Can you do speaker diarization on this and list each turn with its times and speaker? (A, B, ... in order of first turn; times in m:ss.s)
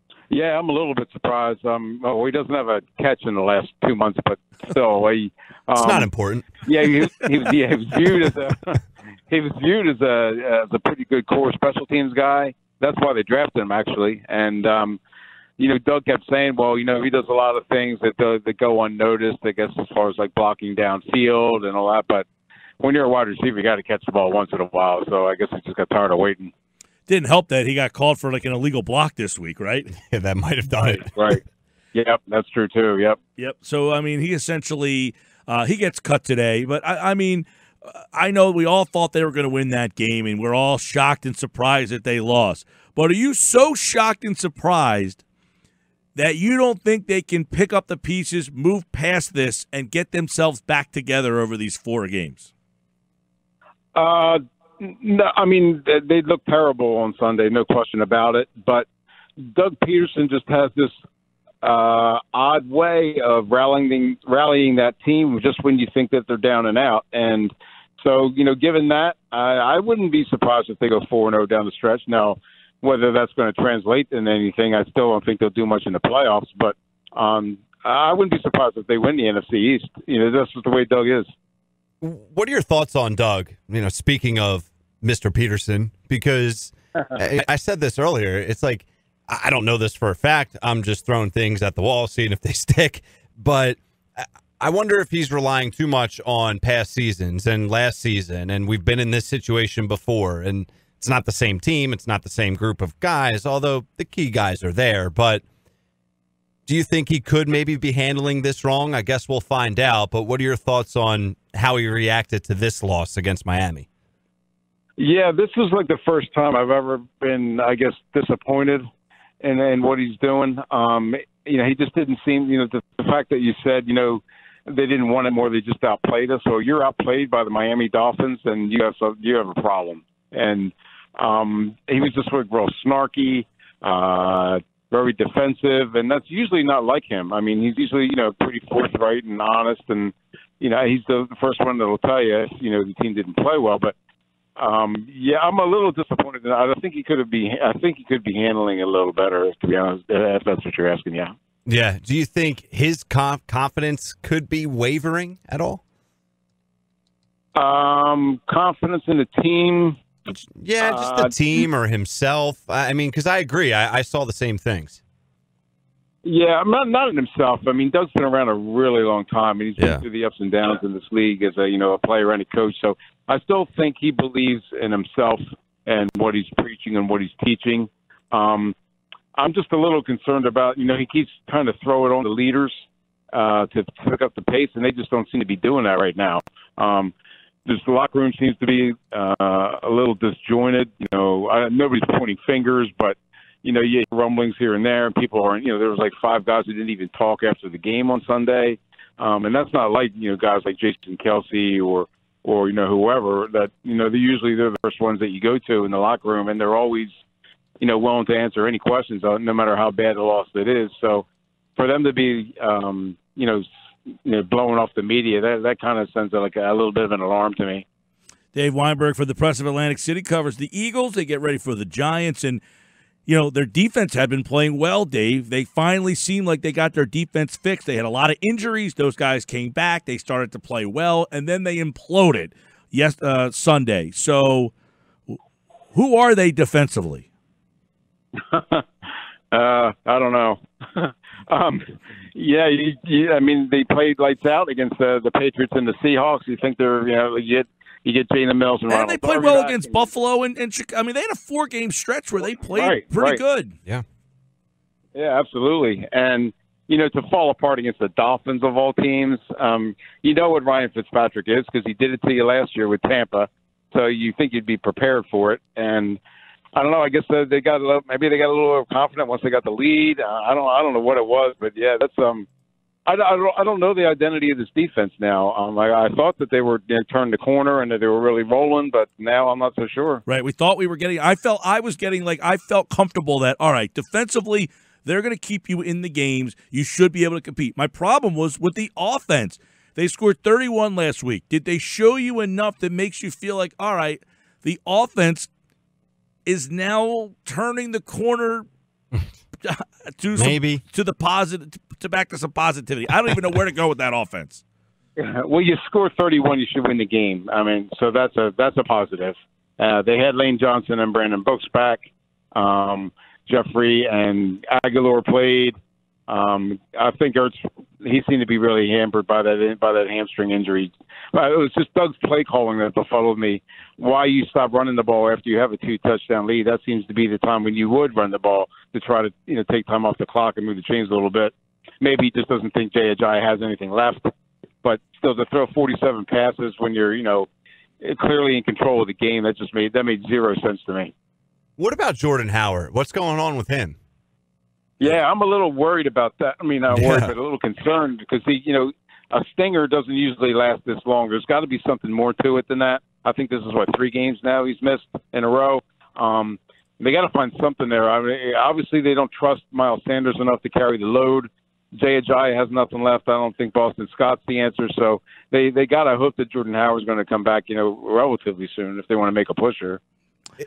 0:00.3-0:06.1 A
0:05.8-0:06.6 B
0:06.6-0:15.0 A
0:15.6-0:22.2 A
0:22.8-0:26.5 A
0:27.1-0:29.9 C
0:30.0-0:31.1 B
0:30.9-0:31.4 A
0:31.9-0:33.2 A
0:33.4-0:45.2 C
0:46.2-0:52.5 C
0:54.0-0:58.9 A
0:59.4-1:00.9 A
1:01.6-1:21.3 A
1:22.0-1:45.4 B
1:46.7-1:53.9 B
1:55.0-1:58.8 A
1:59.4-2:23.9 A
2:24.6-2:31.3 A
2:31.7-2:35.8 B
2:37.5-2:40.0 A
2:40.3-2:45.0 B
2:40.8-2:41.6 A
2:46.2-2:58.8 A
2:49.8-2:50.0 B
2:59.4-3:07.1 A
3:07.7-3:27.1 A
3:27.8-3:31.2 A
3:31.8-3:33.7 A
3:34.2-3:37.8 A
3:38.5-3:42.6 C
3:43.2-3:54.7 C
3:55.9-3:57.2 C
3:58.5-3:58.8 A
3:59.5-4:01.8 A
4:02.3-4:10.1 A
4:08.9-4:13.8 C
4:12.7-4:13.4 A
4:15.1-4:26.2 A
4:26.8-4:32.5 A
4:33.1-4:40.2 A
4:40.3-4:55.5 C
4:56.4-4:58.6 C
4:59.6-5:04.6 C
5:00.4-5:00.8 B
5:05.2-5:15.8 A
5:16.3-5:34.3 A
5:34.8-5:37.5 A
5:38.0-5:41.1 A
5:41.8-5:43.9 B
5:45.0-6:10.0 A
5:46.9-5:47.3 B